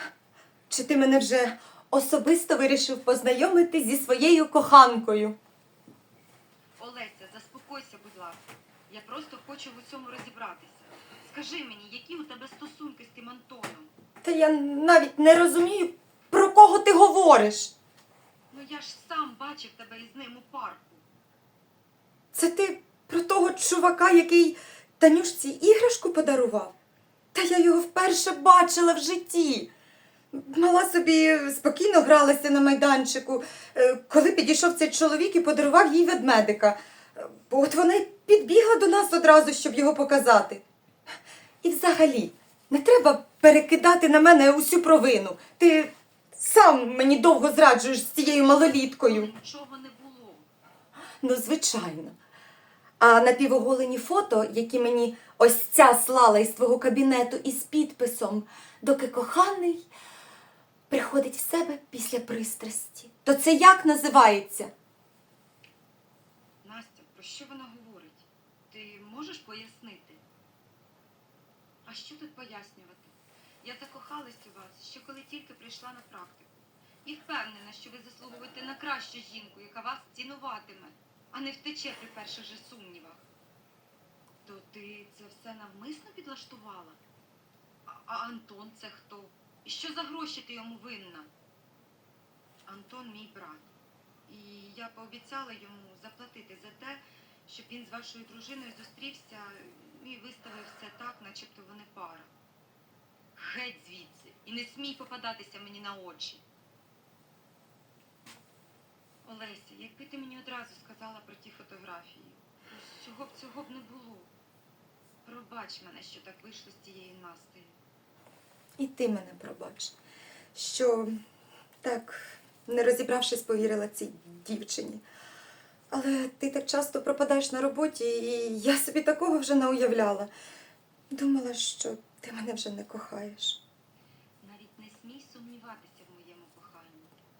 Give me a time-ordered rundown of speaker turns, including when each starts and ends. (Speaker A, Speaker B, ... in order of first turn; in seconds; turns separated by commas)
Speaker A: 0.7-5.3, Speaker B: 6.8-13.9, Speaker A: 14.2-17.7, Speaker B: 18.5-21.0, Speaker A: 22.3-26.7, Speaker A: 27.3-29.7, Speaker A: 30.3-40.6, Speaker A: 41.6-49.3, Speaker B: 48.9-50.5, Speaker A: 51.2-52.1, Speaker A: 53.0-59.8, Speaker A: 60.9-64.7, Speaker B: 66.6-70.2, Speaker B: 71.8-76.5, Speaker B: 77.0-83.2, Speaker B: 84.4-87.0, Speaker B: 87.9-91.3, Speaker B: 92.7-93.7, Speaker B: 94.3-102.3, Speaker B: 103.3-106.4, Speaker B: 109.2-114.3, Speaker B: 115.2-117.8, Speaker A: 118.8-119.9, Speaker A: 120.5-121.1, Speaker A: 121.8-125.0, Speaker A: 125.9-130.3, Speaker A: 131.1-133.6, Speaker B: 134.4-137.1